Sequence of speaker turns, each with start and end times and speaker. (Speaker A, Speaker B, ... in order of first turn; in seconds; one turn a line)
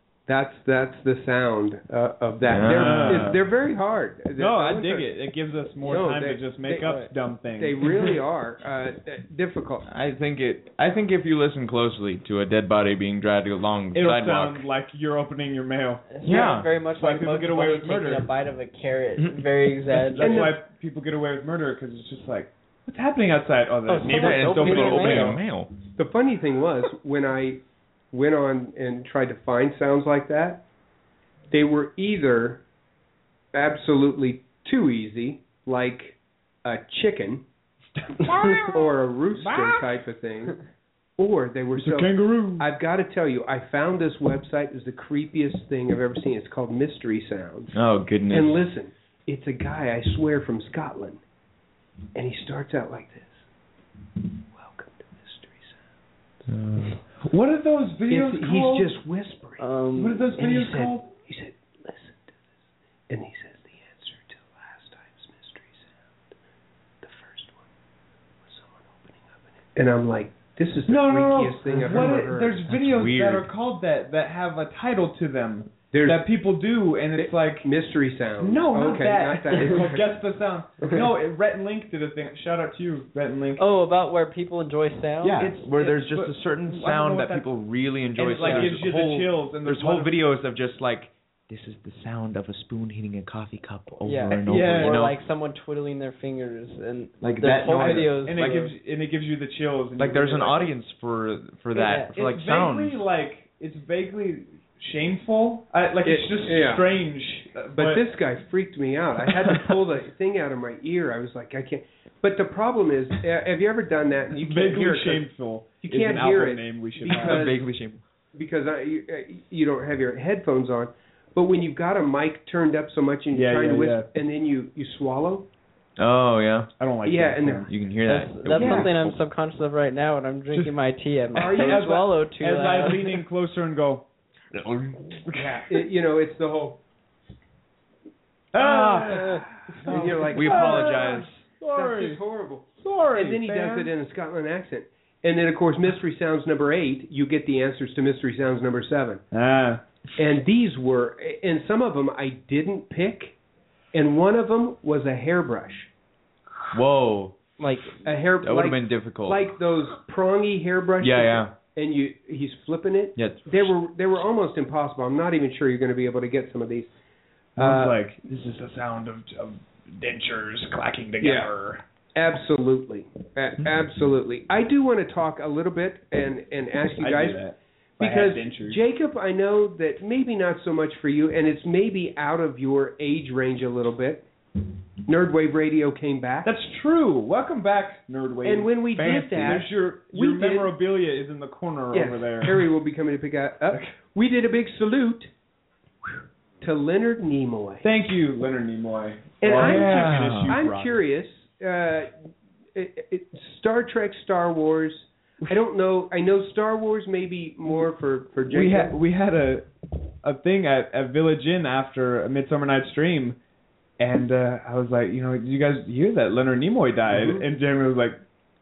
Speaker A: 0.3-5.1
Speaker B: 2.5-3.3
Speaker C: 2.6-3.4
Speaker C: 4.3-8.1
Speaker A: 5.8-7.0
Speaker D: 6.8-7.1
Speaker A: 7.6-9.8
Speaker B: 9.9-14.6
Speaker C: 13.9-18.3
Speaker D: 16.1-20.5
Speaker B: 16.2-16.7
Speaker B: 19.2-19.4
Speaker C: 19.9-25.4
Speaker A: 20.2-20.6
Speaker D: 23.9-25.4
Speaker B: 24.1-25.7
Speaker A: 26.0-30.6
Speaker A: 31.5-32.6
Speaker A: 33.5-37.4
Speaker C: 38.0-40.0
Speaker A: 38.3-40.6
Speaker A: 41.2-47.8
Speaker C: 41.8-42.7
Speaker B: 47.7-48.6
Speaker A: 48.3-51.2
Speaker A: 52.1-53.5
Speaker A: 54.5-55.8
Speaker B: 56.5-57.0
Speaker C: 57.2-58.9
Speaker A: 58.1-59.6
Speaker D: 59.6-60.2
Speaker C: 59.9-61.1
Speaker A: 60.3-62.3
Speaker A: 63.1-65.9
Speaker A: 67.0-67.6
Speaker A: 68.5-72.7
Speaker C: 70.9-77.7
Speaker B: 72.7-73.5
Speaker A: 75.9-76.3
Speaker A: 77.2-80.1
Speaker C: 78.4-83.6
Speaker D: 83.6-85.9
Speaker B: 85.2-95.2
Speaker C: 85.8-87.5
Speaker C: 88.2-90.2
Speaker D: 88.4-88.7
Speaker D: 94.0-98.7
Speaker C: 94.4-95.0
Speaker B: 97.2-98.7
Speaker C: 97.7-100.7
Speaker B: 100.0-103.0
Speaker D: 101.7-102.1
Speaker C: 101.8-108.0
Speaker A: 106.0-106.8
Speaker A: 107.7-115.2
Speaker C: 114.3-117.5
Speaker A: 115.8-117.6
Speaker B: 117.0-118.0
Speaker A: 118.3-125.5
Speaker C: 123.3-124.1
Speaker B: 126.0-126.7
Speaker C: 126.8-127.7
Speaker A: 127.0-127.7
Speaker B: 127.7-129.2
Speaker D: 128.1-133.1
Speaker A: 128.5-128.9
Speaker C: 131.3-134.1
Speaker A: 131.4-131.9
Speaker B: 134.5-135.2
Speaker C: 135.3-135.8
Speaker A: 135.3-136.8
Speaker C: 138.5-142.2
Speaker A: 138.6-149.2
Speaker B: 139.9-141.4
Speaker C: 142.8-143.9
Speaker C: 149.3-149.8
Speaker A: 150.2-153.3
Speaker A: 153.9-155.9
Speaker B: 156.7-157.4
Speaker D: 157.6-158.0
Speaker A: 158.0-166.9
Speaker B: 158.4-159.5
Speaker B: 161.0-161.5
Speaker B: 163.2-163.7
Speaker A: 167.6-167.9
Speaker C: 167.6-171.8
Speaker A: 171.2-171.5
Speaker A: 172.1-177.4
Speaker C: 176.9-178.8
Speaker A: 178.0-184.2
Speaker A: 185.1-186.5
Speaker C: 186.4-192.7
Speaker A: 188.4-190.7
Speaker B: 188.9-189.6
Speaker A: 191.9-195.3
Speaker A: 196.6-197.8
Speaker C: 197.8-201.0
Speaker A: 199.4-208.9
Speaker B: 199.5-200.5
Speaker C: 208.4-209.7
Speaker C: 210.2-213.4
Speaker C: 214.0-218.2
Speaker A: 217.1-217.4